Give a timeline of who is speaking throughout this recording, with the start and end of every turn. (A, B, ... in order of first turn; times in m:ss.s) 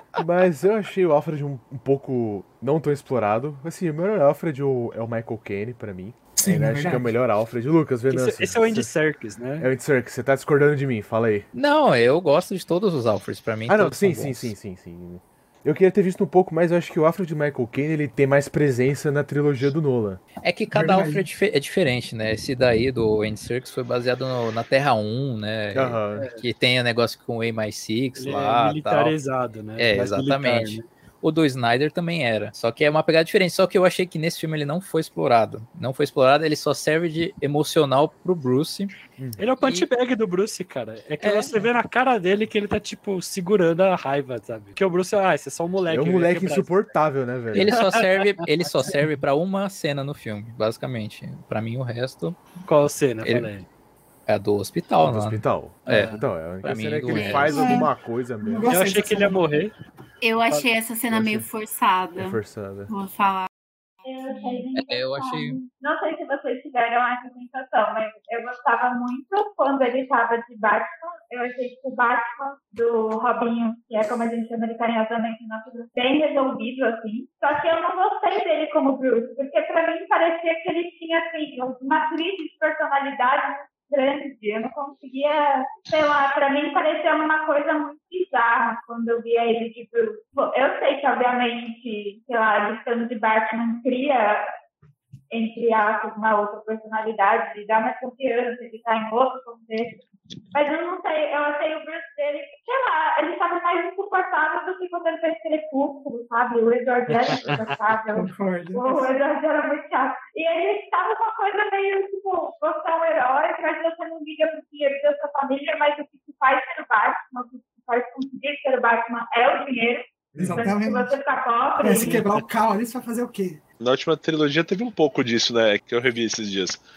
0:00.2-0:08.9 A
0:06.4-0:07.1 B
0:08.1-0:09.7 C
0:09.6-0:11.4 A
0:11.5-0:14.5 D
0:13.7-0:20.2 A
0:20.4-0:29.2 D
0:20.7-0:21.2 B
0:25.7-0:26.3 A
0:26.2-0:26.4 C
0:28.2-0:30.8 C
0:29.8-0:38.9 D
0:39.4-0:46.8 C
0:39.6-0:39.9 D
0:41.2-0:41.7 D
0:45.9-0:47.8 A
0:47.5-0:52.4 D
0:47.6-0:49.0 C
0:52.6-0:53.7 C
0:53.2-0:53.5 D
0:54.3-0:57.8 D
0:55.0-0:58.7 A
0:57.1-0:57.8 E
0:57.4-0:57.9 B
0:58.4-0:59.4 B
0:58.7-0:59.7 C
1:00.2-1:02.4 E
1:01.1-1:01.5 A
1:02.2-1:02.9 A
1:02.9-1:03.5 E
1:04.0-1:34.4 F
1:04.7-1:05.6 D
1:35.3-1:40.0 F
1:40.5-2:02.2 F
1:47.1-1:47.8 C
1:48.1-1:49.1 B
2:00.3-2:00.8 A
2:00.4-2:01.2 B
2:01.8-2:03.6 B
2:02.0-2:02.4 C
2:03.8-2:06.8 G